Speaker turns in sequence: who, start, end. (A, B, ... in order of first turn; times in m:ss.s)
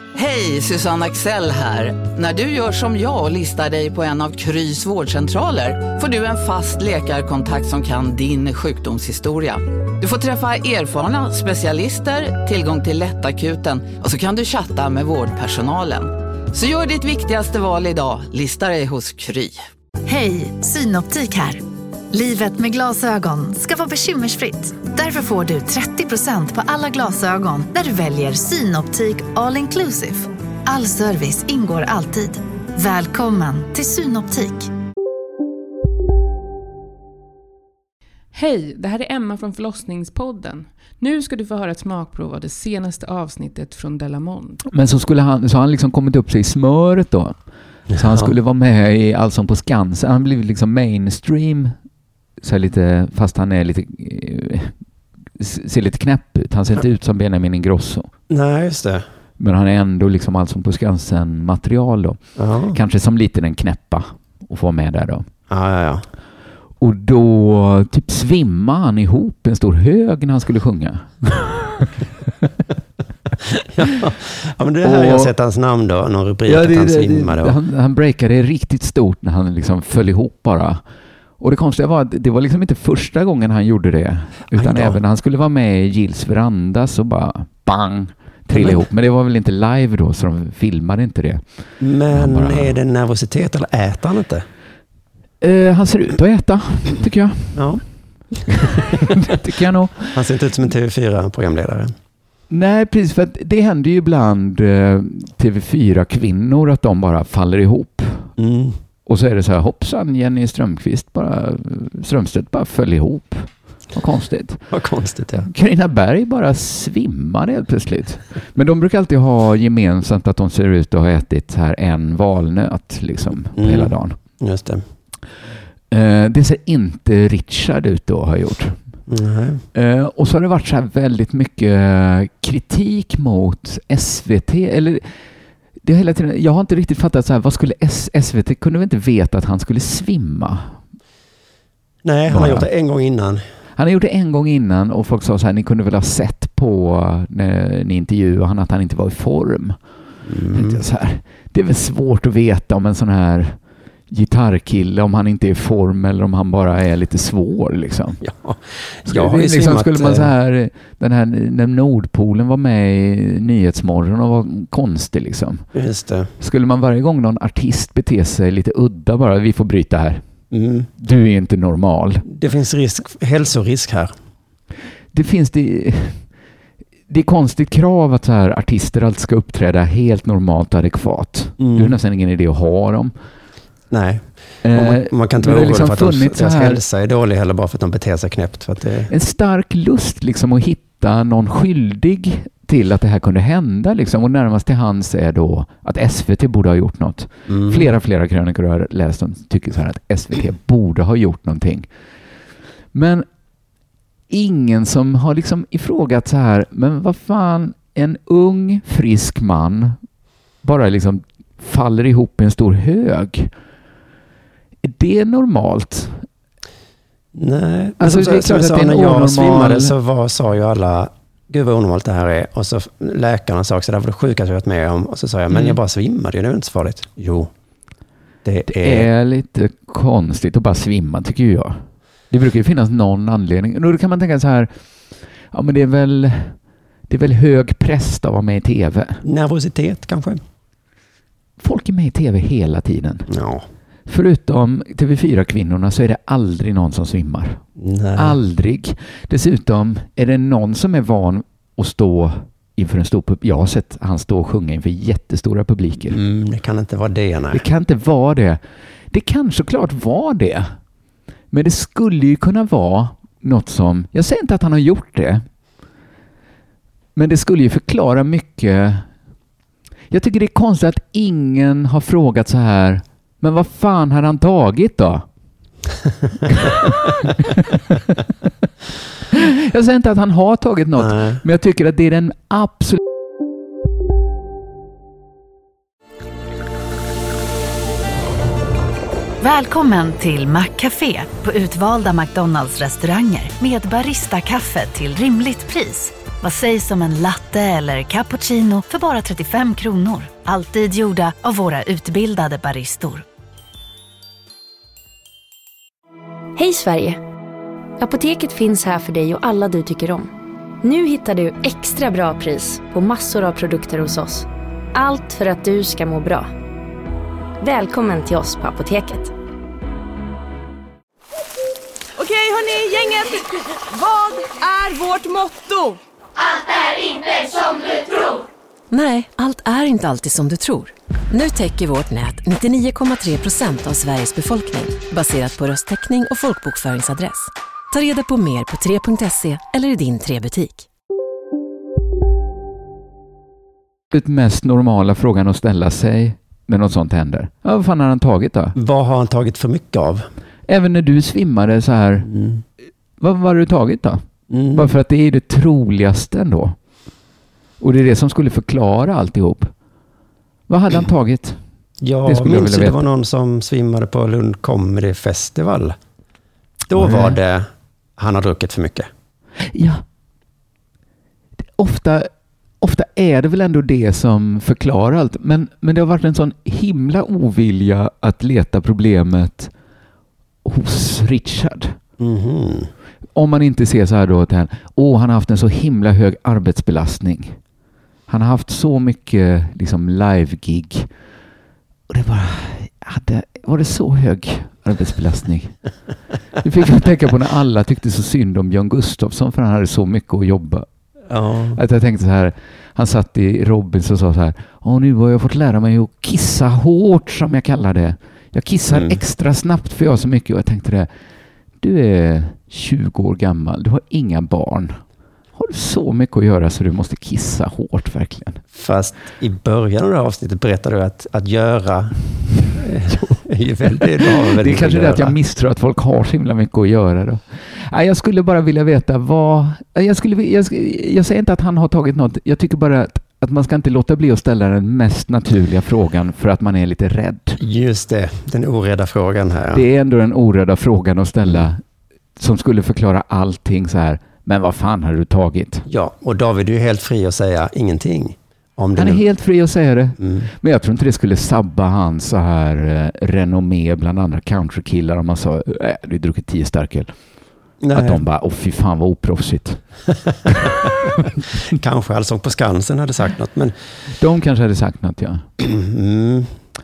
0:00.2-0:19.6 A
0:20.1-0:34.7 B
0:38.3-0:44.6 C
0:44.7-0:47.4 D
0:47.9-0:51.7 D
0:48.0-0:48.3 E
0:52.4-0:54.8 D
0:55.4-0:58.1 D
0:58.3-0:59.0 E
0:59.4-1:05.3 D
1:02.4-1:02.8 E
1:05.5-1:06.1 E
1:06.8-1:11.9 D
1:13.8-1:17.6 E
1:14.8-1:15.3 D
1:16.5-1:20.8 D
1:21.4-1:32.8 D
1:24.5-1:25.0 E
1:28.5-1:28.8 E
1:31.8-1:34.4 E
1:35.4-1:40.2 D
1:37.6-1:37.8 E
1:40.2-1:42.0 E
1:42.5-1:48.3 D
1:48.4-1:48.8 E
1:49.1-1:54.7 D
1:54.7-1:55.5 E
1:55.4-2:04.2 D
2:03.6-2:04.8 E
2:05.9-2:09.0 D
2:09.1-2:09.6 E
2:09.8-2:15.1 D
2:15.8-2:20.8 D
2:22.0-2:23.4 E
2:22.3-2:22.7 D
2:23.8-2:29.8 D
2:30.3-2:30.8 E
2:30.5-2:38.2 D
2:38.2-2:40.3 E
2:39.1-2:45.7 D
2:45.7-2:46.3 E
2:46.4-2:50.2 D
2:50.5-2:50.9 E
2:51.0-2:52.3 D
2:52.3-2:54.1 E
2:55.1-2:56.3 D
2:57.1-3:03.1 D
3:01.6-3:02.0 E
3:03.9-3:09.1 E
3:04.6-3:06.8 D
3:09.1-3:21.9 D
3:17.5-3:17.8 E
3:22.9-3:23.2 D
3:24.3-3:30.0 D
3:30.6-3:33.5 D
3:34.8-3:36.3 D
3:37.4-3:47.5 E
3:38.0-3:39.9 D
3:48.4-3:49.1 E
3:48.7-3:59.2 D
3:59.2-4:00.4 E
4:01.6-4:03.3 D
4:03.3-4:03.6 E
4:04.1-4:07.6 D
4:07.8-4:08.4 E
4:08.2-4:16.2 D
4:16.1-4:17.6 E
4:17.5-4:18.6 D
4:19.1-4:20.7 D
4:21.5-4:25.4 D
4:27.2-4:29.1 D
4:30.1-4:35.2 D
4:36.5-4:37.8 D
4:39.3-4:43.0 D
4:41.1-4:41.4 E
4:49.4-5:03.2 B
5:06.6-5:07.2 F
5:08.0-5:10.3 F
5:10.8-5:16.5 F
5:17.6-5:19.3 F
5:22.2-5:23.4 G
5:24.0-5:25.9 G
5:28.9-5:40.8 H
5:44.1-5:48.8 D
5:48.8-5:50.3 E
5:50.7-5:52.3 D
5:52.4-5:52.6 E
5:53.2-5:54.2 D
5:54.5-5:54.9 E
5:54.7-5:56.8 D
5:57.8-5:59.7 D
6:00.7-6:01.6 D
6:02.0-6:06.0 E
6:02.3-6:03.0 D
6:06.9-6:09.1 E
6:07.0-6:07.3 D
6:09.7-6:10.0 D
6:11.8-6:12.3 D
6:12.8-6:19.7 D
6:20.6-6:22.0 D
6:22.2-6:22.9 E
6:23.4-6:27.6 D
6:28.3-6:31.1 D
6:32.1-6:35.9 D
6:36.6-6:40.9 D
6:41.3-6:41.8 E
6:41.8-6:51.1 D
6:51.8-6:55.0 D
6:55.6-6:58.6 D
6:58.8-7:05.4 E
7:04.4-7:17.6 D
7:17.6-7:19.8 E
7:19.7-7:21.8 D
7:22.4-7:25.9 D
7:25.9-7:29.2 E
7:29.0-7:40.6 D
7:30.2-7:30.5 E
7:37.8-7:38.2 E
7:41.7-7:43.8 E
7:44.1-7:45.5 D
7:45.6-7:46.5 E